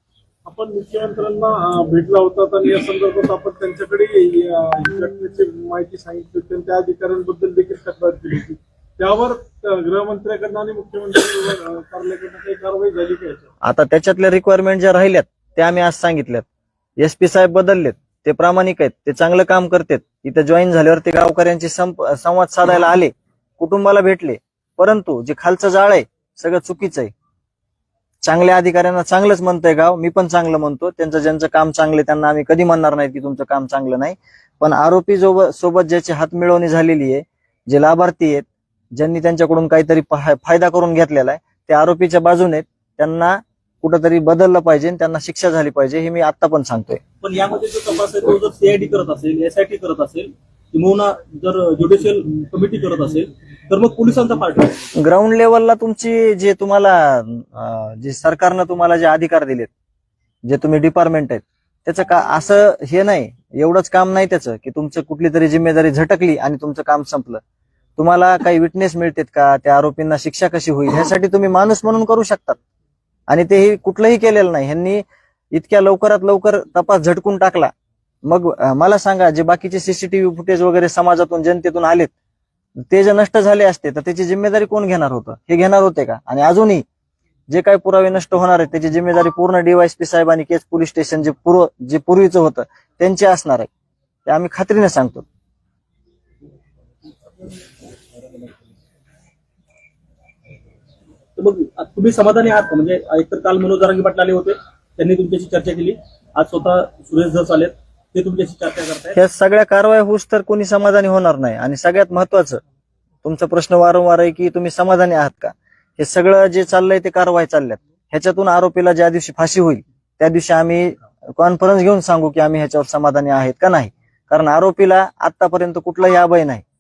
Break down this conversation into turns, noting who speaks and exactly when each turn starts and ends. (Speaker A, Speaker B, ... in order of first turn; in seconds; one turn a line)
Speaker A: 0.5-13.4
Speaker B: 13.6-16.5
Speaker B: 17.0-27.1
Speaker B: 28.2-47.0
Speaker C: 47.2-54.9
Speaker B: 55.0-59.7
Speaker B: 60.5-67.4
Speaker B: 68.0-72.6
Speaker B: 73.3-77.7
Speaker B: 78.2-82.1
Speaker B: 82.9-86.8
Speaker B: 87.5-93.7
Speaker B: 94.3-95.2
Speaker C: 101.4-109.2
Speaker B: 109.2-112.6
Speaker B: 113.2-126.6